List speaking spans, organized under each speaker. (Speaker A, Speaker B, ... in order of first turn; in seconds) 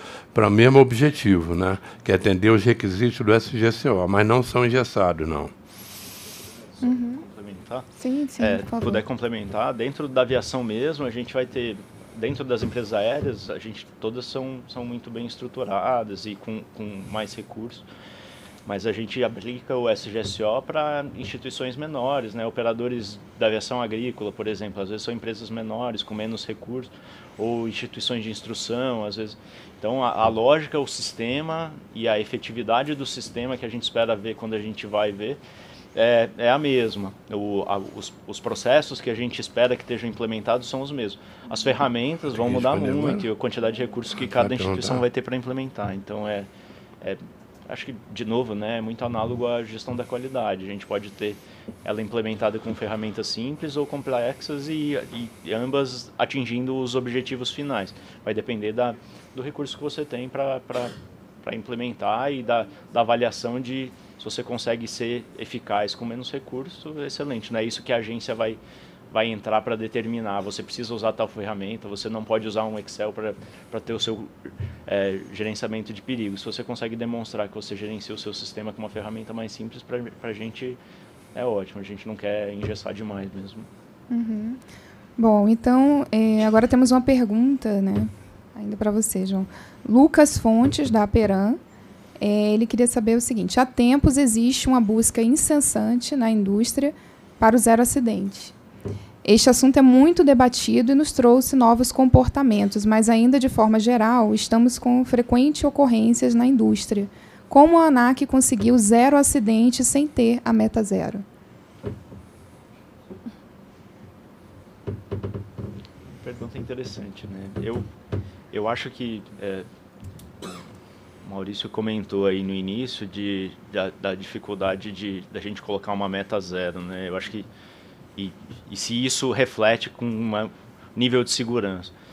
Speaker A: 0.3-5.5, 42.3-43.2, 44.2-45.0
Speaker B: 6.8-7.9, 8.4-17.9, 18.6-35.4, 35.9-46.5, 47.0-68.6, 69.1-74.3, 74.9-80.8, 81.3-83.7, 116.1-117.8, 118.5-119.7, 121.2-127.5, 128.2-131.9
Speaker C: 6.8-7.2, 8.0-9.0, 84.1-84.6, 85.2-91.6, 92.2-98.5, 99.2-111.2